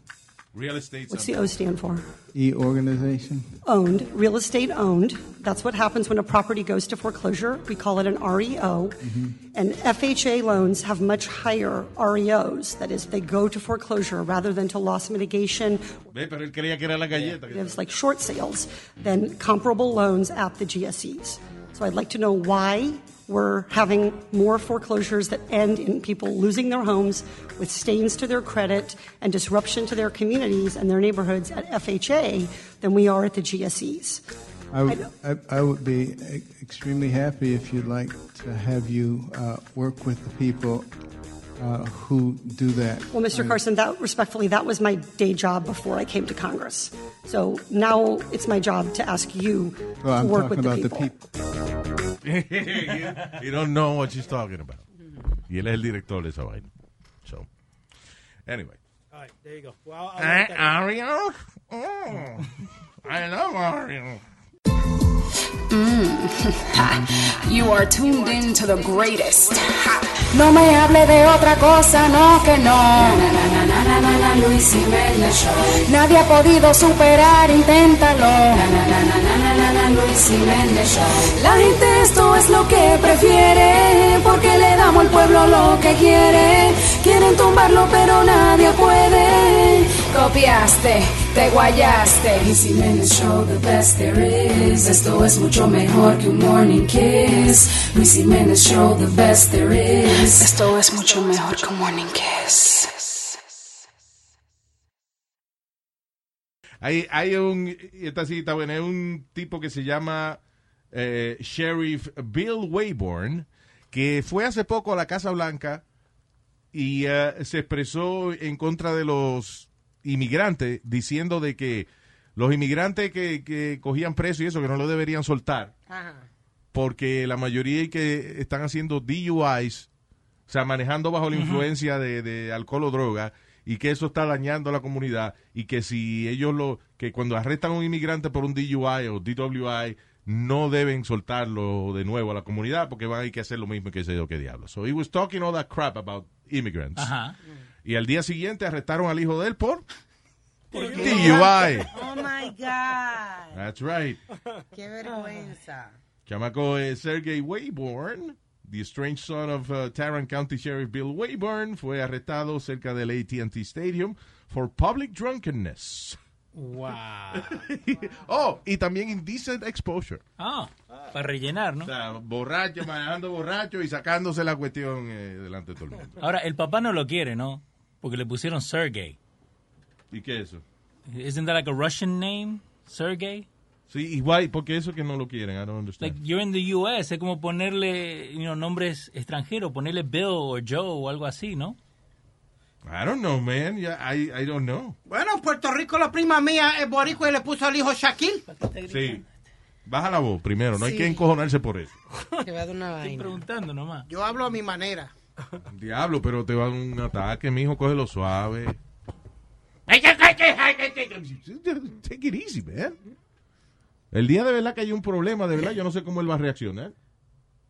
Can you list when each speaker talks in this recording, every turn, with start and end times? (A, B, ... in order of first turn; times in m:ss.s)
0:00.5-0:01.5 A
0:01.1-0:02.1 B
0:02.3-0:03.6 C
0:03.6-0:15.9 B
0:09.0-0:09.4 C
0:16.1-0:17.8 A
0:17.5-0:34.2 B
0:34.7-0:40.9 C
0:41.6-0:43.6 C
0:43.1-0:51.1 B
0:50.0-0:51.2 C
0:52.2-0:54.8 A
0:55.5-0:56.7 A
0:58.5-0:58.8 A
0:59.1-1:00.8 D
1:00.2-1:02.5 A
1:03.0-1:04.2 A
1:05.7-1:43.4 E
1:46.8-1:50.4 A
1:50.9-1:55.8 A
1:56.7-2:05.7 A
2:05.9-2:06.3 F
2:06.7-2:09.9 A
2:10.5-2:27.1 A
2:11.3-2:11.7 G
2:27.0-2:27.4 G
2:27.8-2:29.8 A
2:30.7-2:31.8 D
2:30.8-2:33.6 F
2:30.9-2:31.9 A
2:33.5-2:34.2 A
2:34.7-2:35.9 F
2:36.2-2:46.2 A
2:46.6-2:47.4 G
2:47.3-2:50.2 A
2:50.4-2:51.9 G
2:51.8-2:56.2 A
2:56.2-2:59.2 G
3:00.1-3:00.6 A
3:01.1-3:03.5 G
3:03.9-3:06.2 A
3:06.0-3:11.8 G
3:12.8-3:15.0 A
3:15.1-3:18.4 H
3:18.5-3:19.2 G
3:18.9-3:19.2 A
3:19.9-3:21.9 A
3:20.8-3:21.2 F
3:22.4-3:23.4 F
3:23.0-3:24.1 G
3:24.1-3:25.1 H
3:25.6-3:28.8 A
3:29.9-3:33.0 A
3:34.1-3:36.9 A